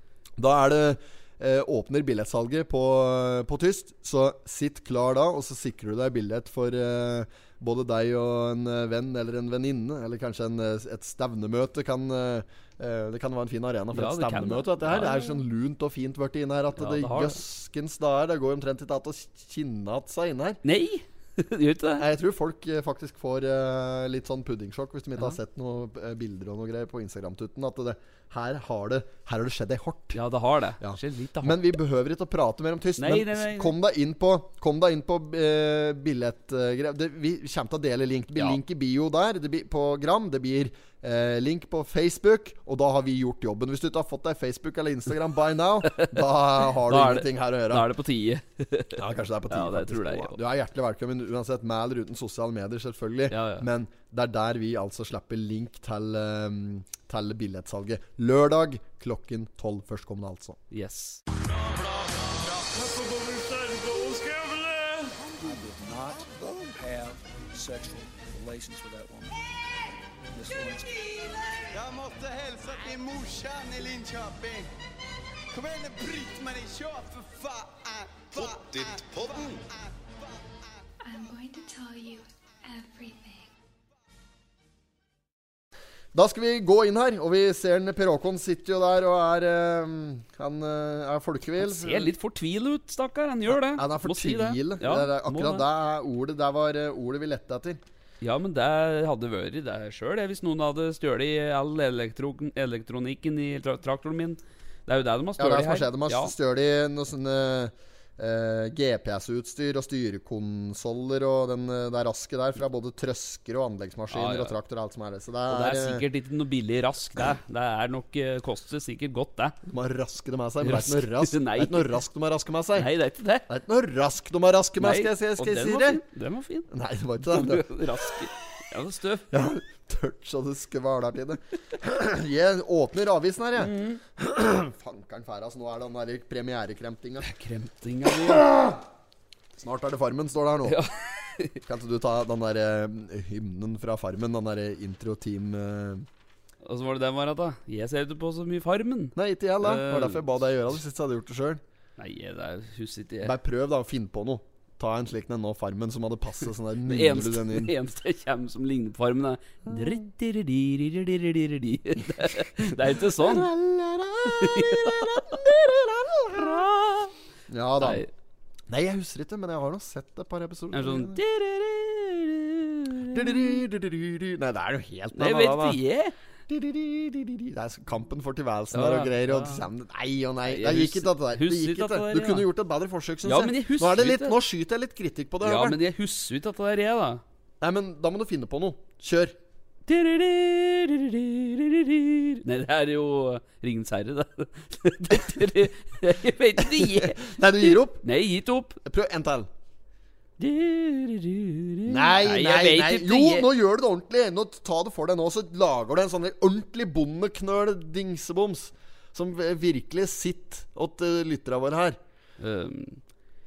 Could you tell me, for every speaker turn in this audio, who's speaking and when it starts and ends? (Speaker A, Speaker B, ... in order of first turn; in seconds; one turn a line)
Speaker A: 0.4-20.6
Speaker B: 13.9-15.4
Speaker B: 16.8-17.4
Speaker B: 20.6-22.1
Speaker A: 22.0-30.2
Speaker B: 30.1-31.7
Speaker A: 30.8-47.9
Speaker B: 33.0-33.7
Speaker B: 46.7-50.4
Speaker A: 49.0-60.6
Speaker B: 53.3-53.7
Speaker B: 60.7-61.2
Speaker C: 61.4-65.3
Speaker D: 65.4-69.3
Speaker D: 70.3-70.9
Speaker C: 71.6-74.7
Speaker C: 75.5-80.4
Speaker E: 81.0-83.5
Speaker A: 86.1-92.1
Speaker B: 91.6-95.6
Speaker A: 93.5-97.8
Speaker B: 98.2-106.3
Speaker A: 105.4-116.0
Speaker B: 114.1-114.6
Speaker B: 115.5-119.6
Speaker A: 119.7-122.9
Speaker B: 120.6-122.0
Speaker B: 122.8-123.5
Speaker A: 123.5-126.0
Speaker B: 124.8-126.7
Speaker A: 126.7-128.1
Speaker B: 127.2-129.3
Speaker A: 129.3-137.3
Speaker B: 133.6-134.0
Speaker B: 137.2-138.7
Speaker A: 138.2-138.7
Speaker A: 139.6-140.8
Speaker B: 140.7-141.6
Speaker A: 141.6-146.1
Speaker B: 146.6-150.3
Speaker A: 149.2-151.6
Speaker B: 152.0-153.3
Speaker A: 153.2-157.7
Speaker B: 156.9-163.5
Speaker A: 163.0-166.7
Speaker B: 164.2-165.2
Speaker B: 166.3-167.1
Speaker A: 167.5-168.0
Speaker B: 167.8-168.1
Speaker A: 168.7-171.2
Speaker B: 170.7-173.5
Speaker A: 173.1-175.8
Speaker B: 175.1-176.1
Speaker A: 176.5-185.8
Speaker B: 178.7-179.6
Speaker B: 180.5-182.5
Speaker B: 183.2-184.4
Speaker B: 185.4-187.2
Speaker A: 187.6-189.4
Speaker B: 189.9-198.8
Speaker A: 196.6-198.0
Speaker A: 198.8-199.5
Speaker B: 200.4-203.5
Speaker A: 201.9-212.0
Speaker B: 212.4-213.0